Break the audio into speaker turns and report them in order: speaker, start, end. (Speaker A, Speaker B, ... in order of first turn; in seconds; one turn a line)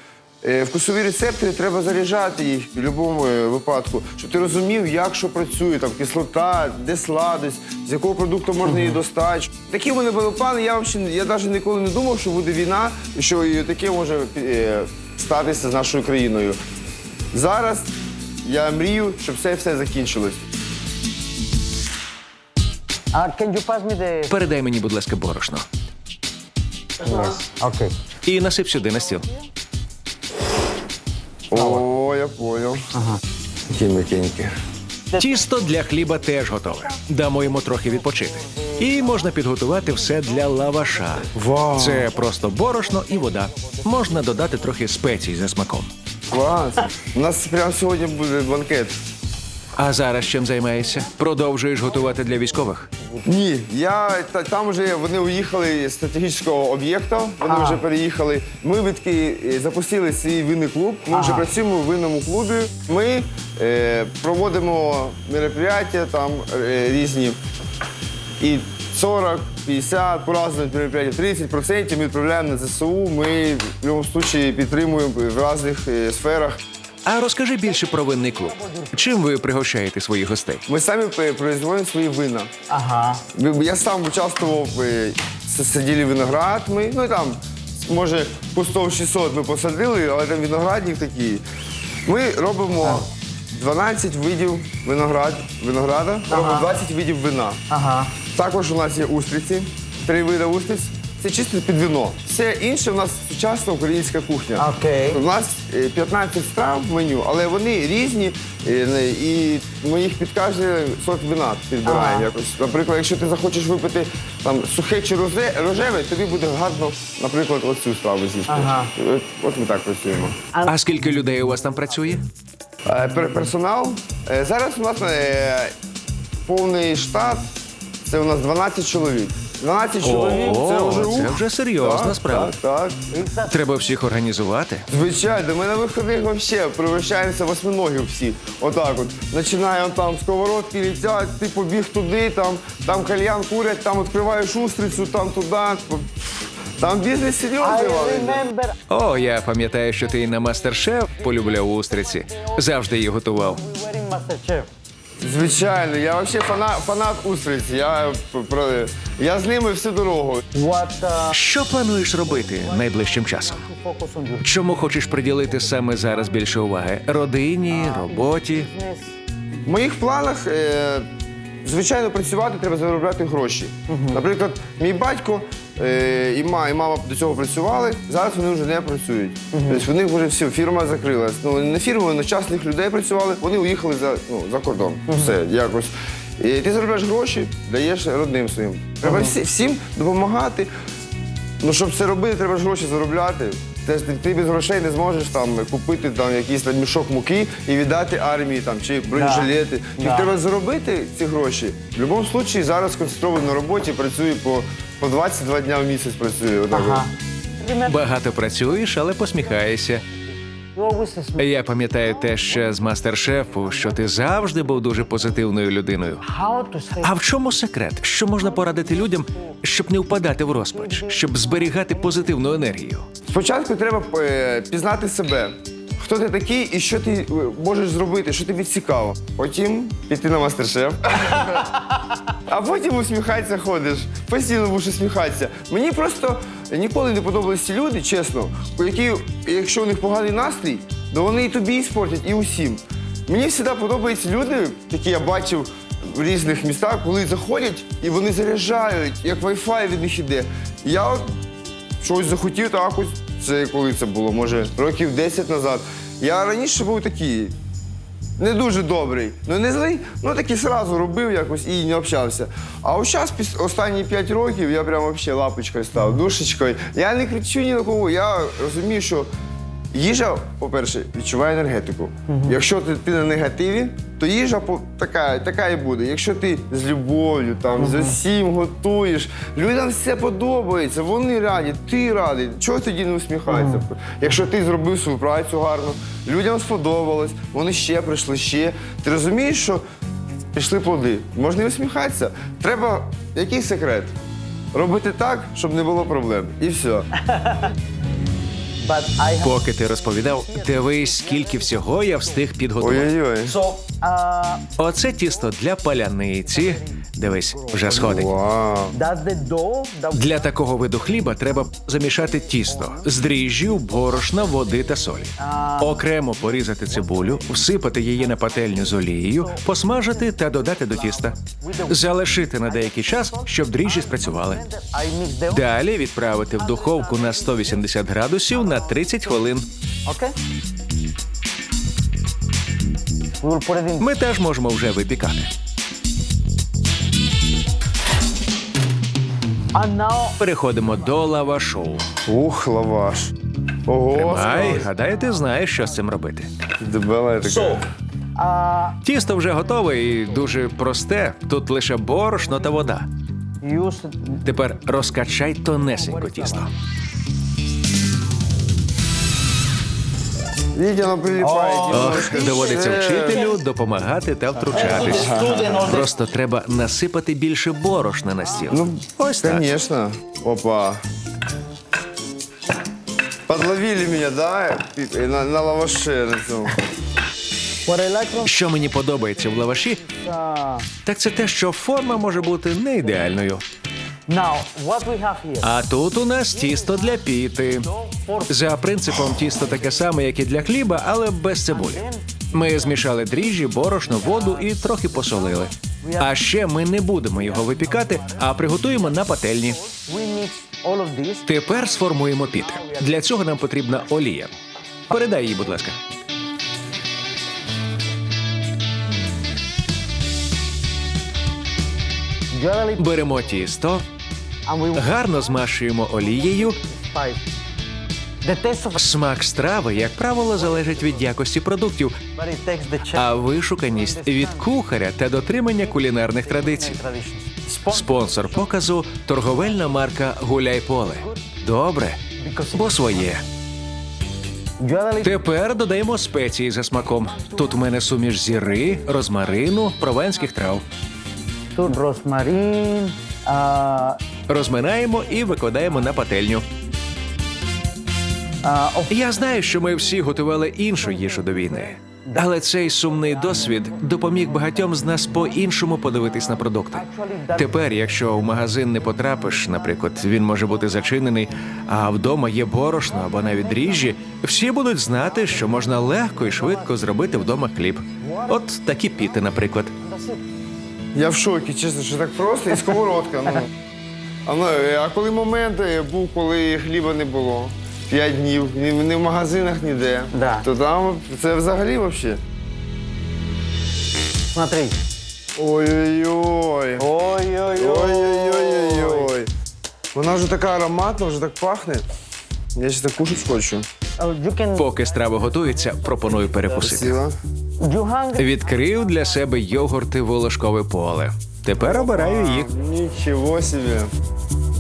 Speaker A: 0.4-16.6
Speaker B: 8.6-9.0
Speaker A: 17.3-20.5
Speaker B: 23.1-24.4
Speaker C: 24.3-25.6
Speaker B: 27.0-27.9
Speaker C: 28.2-29.3
Speaker A: 31.5-32.8
Speaker B: 31.5-31.8
Speaker B: 32.9-33.2
Speaker A: 33.7-34.5
Speaker B: 35.1-35.6
Speaker C: 35.1-45.9
Speaker B: 37.5-39.3
Speaker B: 39.9-41.2
Speaker A: 41.3-42.1
Speaker B: 41.9-44.6
Speaker A: 46.3-49.0
Speaker C: 49.8-52.9
Speaker A: 53.2-67.4
Speaker B: 57.5-57.8
Speaker B: 61.1-61.5
Speaker A: 68.4-76.6
Speaker C: 77.0-80.6
Speaker B: 77.7-79.1
Speaker A: 80.7-82.5
Speaker B: 82.7-83.2
Speaker A: 83.3-91.4
Speaker A: 92.0-97.6
Speaker B: 96.3-96.7
Speaker B: 97.7-98.1
Speaker A: 98.2-120.4
Speaker B: 104.6-105.2
Speaker B: 111.8-112.3
Speaker B: 118.5-118.9
Speaker C: 120.7-122.2
Speaker A: 122.8-125.7
Speaker A: 126.4-127.5
Speaker A: 128.0-133.1
Speaker C: 130.0-132.5
Speaker B: 133.1-133.6
Speaker C: 133.4-134.9
Speaker A: 134.9-148.4
Speaker B: 147.6-148.8
Speaker C: 148.9-153.6
Speaker B: 151.1-154.7
Speaker A: 155.2-160.4
Speaker B: 160.5-161.4
Speaker C: 161.3-163.6
Speaker B: 162.3-164.7
Speaker C: 164.4-168.7
Speaker B: 167.7-169.2
Speaker A: 169.6-171.1
Speaker A: 171.6-190.7
Speaker B: 173.9-174.2
Speaker B: 179.5-179.8
Speaker B: 185.1-185.3
Speaker B: 189.0-189.4
Speaker A: 191.6-207.0
Speaker B: 199.1-200.3
Speaker B: 206.7-208.0
Speaker C: 207.8-210.0
Speaker B: 210.7-214.1
Speaker C: 211.4-216.2
Speaker B: 216.2-217.2
Speaker C: 217.0-223.1
Speaker B: 218.5-219.5
Speaker B: 220.7-222.3
Speaker A: 223.3-231.7
Speaker A: 232.5-251.3
Speaker A: 252.0-257.5
Speaker A: 258.4-269.3
Speaker A: 269.9-289.8
Speaker B: 272.3-272.6
Speaker B: 277.8-278.2
Speaker B: 283.5-283.8
Speaker A: 290.5-294.1
Speaker A: 294.7-297.1
Speaker B: 297.1-297.7
Speaker B: 298.8-302.4
Speaker C: 299.4-303.1
Speaker A: 302.8-303.6
Speaker B: 303.4-304.7
Speaker C: 304.8-308.3
Speaker B: 306.5-308.1
Speaker A: 307.9-308.9
Speaker B: 308.9-310.5
Speaker C: 310.1-321.4
Speaker B: 312.7-313.1
Speaker B: 315.4-316.0
Speaker B: 316.7-317.6
Speaker B: 318.2-325.7
Speaker C: 321.9-324.6
Speaker C: 325.5-329.7
Speaker B: 326.6-327.9
Speaker B: 328.7-329.0
Speaker B: 330.1-330.3
Speaker B: 333.4-334.1
Speaker C: 334.0-335.5
Speaker B: 339.7-340.4
Speaker C: 340.4-342.1
Speaker A: 342.2-343.3
Speaker A: 343.9-344.9
Speaker C: 344.1-346.5
Speaker A: 346.8-347.8
Speaker B: 347.4-347.8
Speaker B: 348.4-349.0
Speaker C: 349.0-353.1
Speaker B: 353.6-354.4
Speaker C: 354.4-356.7
Speaker B: 356.0-356.7
Speaker A: 360.7-363.5
Speaker B: 361.4-363.5
Speaker C: 361.9-369.7
Speaker B: 364.6-366.1
Speaker A: 365.1-365.6
Speaker A: 368.7-371.0
Speaker A: 373.5-376.7
Speaker B: 377.9-378.5
Speaker C: 378.4-380.0
Speaker B: 379.9-380.9
Speaker C: 381.0-383.6
Speaker B: 384.3-385.7
Speaker C: 385.6-387.9
Speaker B: 386.5-388.8
Speaker C: 388.5-399.8
Speaker B: 389.6-390.0
Speaker B: 391.7-393.0
Speaker B: 394.0-396.4
Speaker B: 397.3-399.1
Speaker B: 399.8-401.5
Speaker C: 401.5-404.5
Speaker B: 402.6-403.2
Speaker C: 405.1-406.0
Speaker B: 412.5-413.6
Speaker C: 413.0-414.0
Speaker B: 414.6-415.4
Speaker C: 414.9-416.8
Speaker B: 416.3-417.4
Speaker B: 418.4-419.0
Speaker C: 419.0-422.2
Speaker B: 420.6-421.2
Speaker B: 422.3-423.3
Speaker C: 423.1-427.0
Speaker B: 423.9-424.7
Speaker B: 425.8-428.8
Speaker C: 427.9-432.2
Speaker B: 432.4-433.4
Speaker C: 432.7-433.4
Speaker B: 434.8-435.3
Speaker C: 435.2-440.8
Speaker B: 437.4-437.8
Speaker B: 441.7-444.2
Speaker C: 444.5-446.6
Speaker B: 448.6-449.1
Speaker C: 449.1-457.0
Speaker B: 451.1-455.6
Speaker B: 456.9-458.8
Speaker C: 457.5-469.9
Speaker B: 459.3-461.5
Speaker B: 463.1-464.2
Speaker B: 465.2-467.3
Speaker B: 468.2-468.6
Speaker B: 469.1-469.4
Speaker B: 469.9-470.4
Speaker A: 471.1-473.7
Speaker A: 474.4-482.4
Speaker B: 480.3-480.7
Speaker B: 484.5-485.0
Speaker A: 485.6-487.1
Speaker B: 487.0-489.3
Speaker A: 487.8-489.5
Speaker A: 490.1-492.0
Speaker A: 492.7-493.9
Speaker B: 494.2-496.5
Speaker C: 494.8-497.2
Speaker A: 496.7-497.4
Speaker B: 497.8-498.7
Speaker C: 498.4-502.7
Speaker A: 501.8-504.1